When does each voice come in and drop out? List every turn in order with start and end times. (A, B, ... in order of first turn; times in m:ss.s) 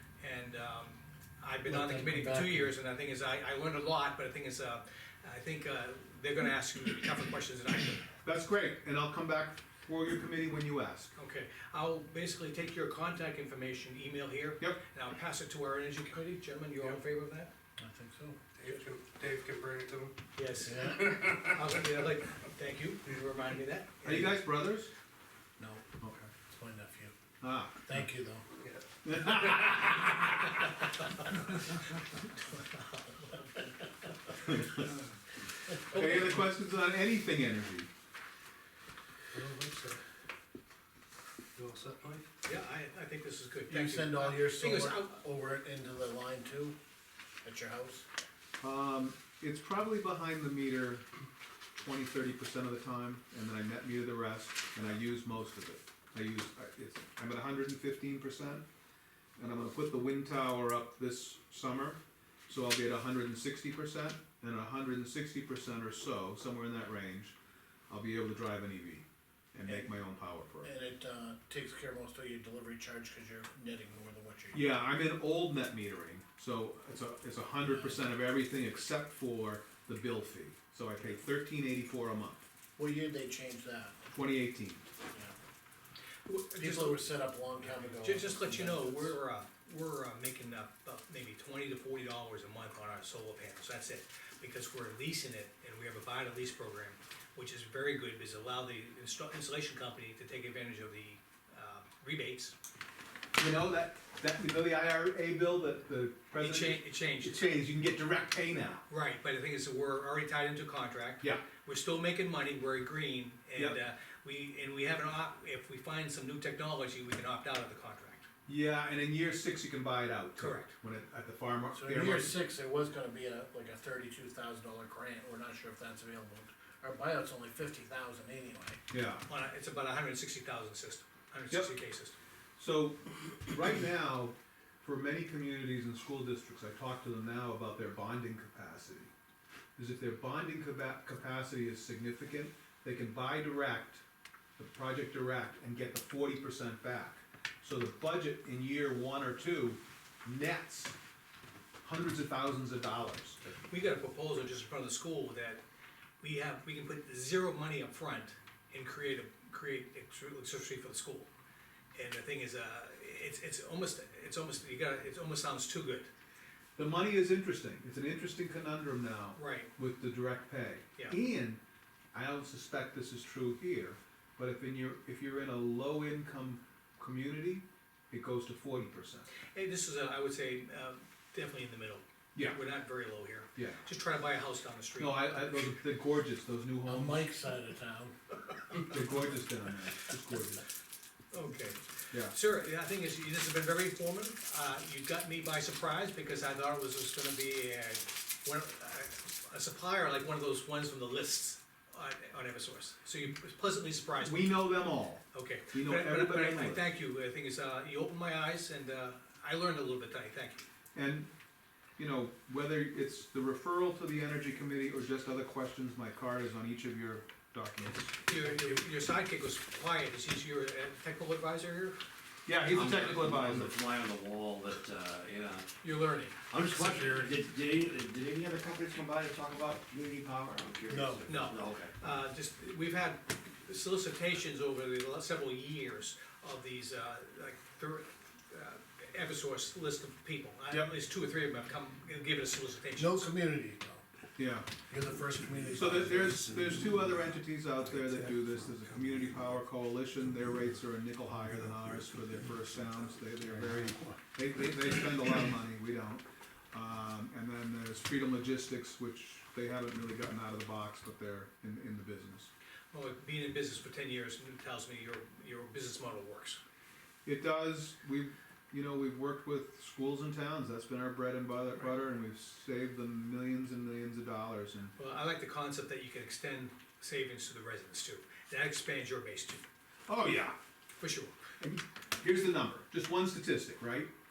0:00.2-0:08.1 A
0:01.6-0:02.7 B
0:08.2-0:11.1 C
0:11.2-0:17.5 A
0:17.8-0:18.5 B
0:18.5-0:21.6 D
0:20.4-0:24.4 A
0:20.6-0:21.2 B
0:24.0-0:24.9 C
0:26.0-0:26.3 C
0:26.4-0:27.1 B
0:27.4-0:27.9 C
0:27.8-0:28.4 B
0:28.6-0:29.7 D
0:29.0-0:30.2 C
0:32.5-0:33.4 A
0:34.5-0:34.8 C
0:35.9-0:37.9 C
0:35.9-0:36.3 A
0:39.3-0:40.0 D
0:39.3-0:40.0 B
0:41.6-0:42.2 D
0:42.4-0:45.2 A
0:43.7-0:46.7 B
0:47.4-0:48.0 B
0:48.6-0:51.0 C
0:51.8-0:58.6 C
0:59.4-1:07.4 C
1:07.9-1:10.7 C
1:10.6-1:14.7 B
1:14.5-1:22.4 C
1:17.6-1:18.0 B
1:22.8-1:24.0 B
1:24.1-1:24.9 C
1:26.2-1:27.1 A
1:26.6-1:29.1 B
1:28.0-1:42.5 A
1:43.4-1:48.8 C
1:46.4-1:47.4 A
1:48.9-1:58.3 A
1:51.2-1:51.4 C
1:58.4-2:02.4 C
2:00.4-2:00.7 A
2:01.7-2:08.8 B
2:08.9-2:09.2 C
2:09.3-2:12.2 A
2:12.6-2:19.1 C
2:19.8-2:24.0 C
2:24.6-2:31.0 C
2:31.8-2:33.5 C
2:33.7-2:35.6 A
2:36.2-2:41.3 A
2:41.9-2:46.1 A
2:46.8-2:51.6 C
2:49.4-2:49.7 A
2:52.1-2:59.3 C
2:59.5-3:05.5 A
3:02.3-3:02.6 C
3:03.5-3:03.8 C
3:05.0-3:07.2 C
3:06.8-3:08.1 B
3:08.9-3:10.6 C
3:11.3-3:24.6 A
3:24.2-3:26.8 C
3:25.3-3:30.7 A
3:30.9-3:31.3 C
3:32.0-3:38.2 C
3:38.2-3:42.0 A
3:42.4-3:43.8 C
3:42.7-3:45.7 E
3:45.8-3:46.4 A
3:46.5-3:51.9 E
3:50.9-3:51.2 B
3:51.2-4:03.3 A
4:03.0-4:04.0 B
4:04.4-4:04.7 C
4:04.9-4:07.0 B
4:05.7-4:22.5 C
4:22.9-4:26.6 A
4:27.2-4:34.9 C
4:35.0-4:39.7 A
4:40.1-4:40.6 C
4:41.0-4:41.4 A
4:41.6-4:44.1 C